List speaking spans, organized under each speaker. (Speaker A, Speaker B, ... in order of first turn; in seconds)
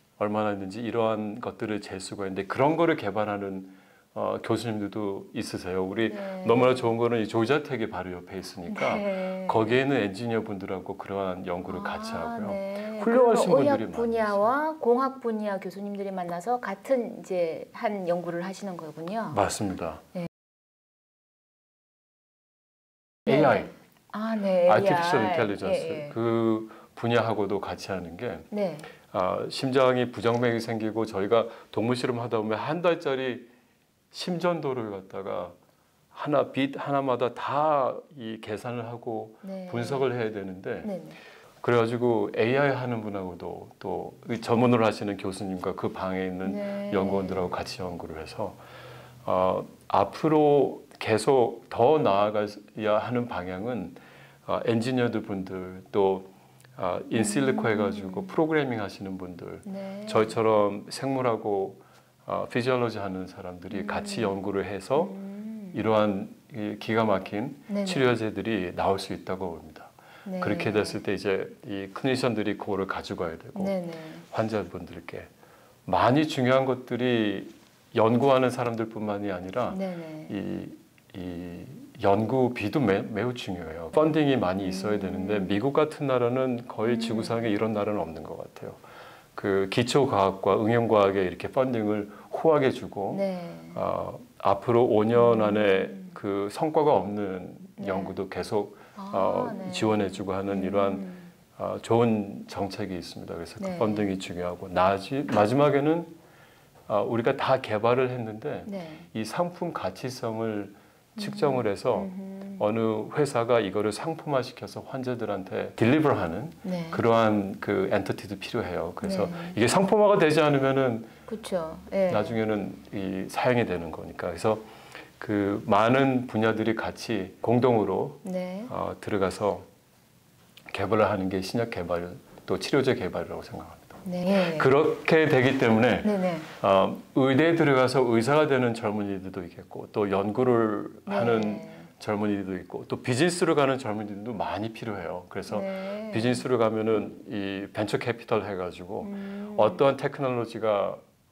Speaker A: 0.2-14.5, 19.3-20.0, 23.3-23.7, 24.7-28.5, 29.0-33.5, 34.1-35.6, 36.1-40.9, 41.6-48.6, 49.2-65.2, 65.7-73.8, 74.3-75.3, 75.9-88.8, 89.3-93.2, 93.7-106.1, 106.9-121.1, 122.1-124.7, 125.2-129.7, 130.7-151.0
Speaker B: 6.1-6.9, 8.7-9.8, 11.7-19.4, 23.3-26.2, 28.5-28.9, 39.4-40.1, 40.8-41.2, 46.5-47.5, 57.2-58.3, 59.7-60.4, 63.7-64.4, 65.0-65.8, 67.7-68.2, 70.2-71.0, 73.6-74.2, 79.7-80.3, 84.6-85.6, 86.8-87.4, 93.1-93.8, 95.1-96.1, 97.8-98.2, 99.0-101.3, 103.6-104.1, 108.7-109.1, 111.2-112.6, 116.7-117.0, 119.0-119.6, 121.3-122.4, 128.2-128.7, 134.1-134.7, 136.0-136.5, 141.1-141.9, 145.5-146.4, 149.0-149.8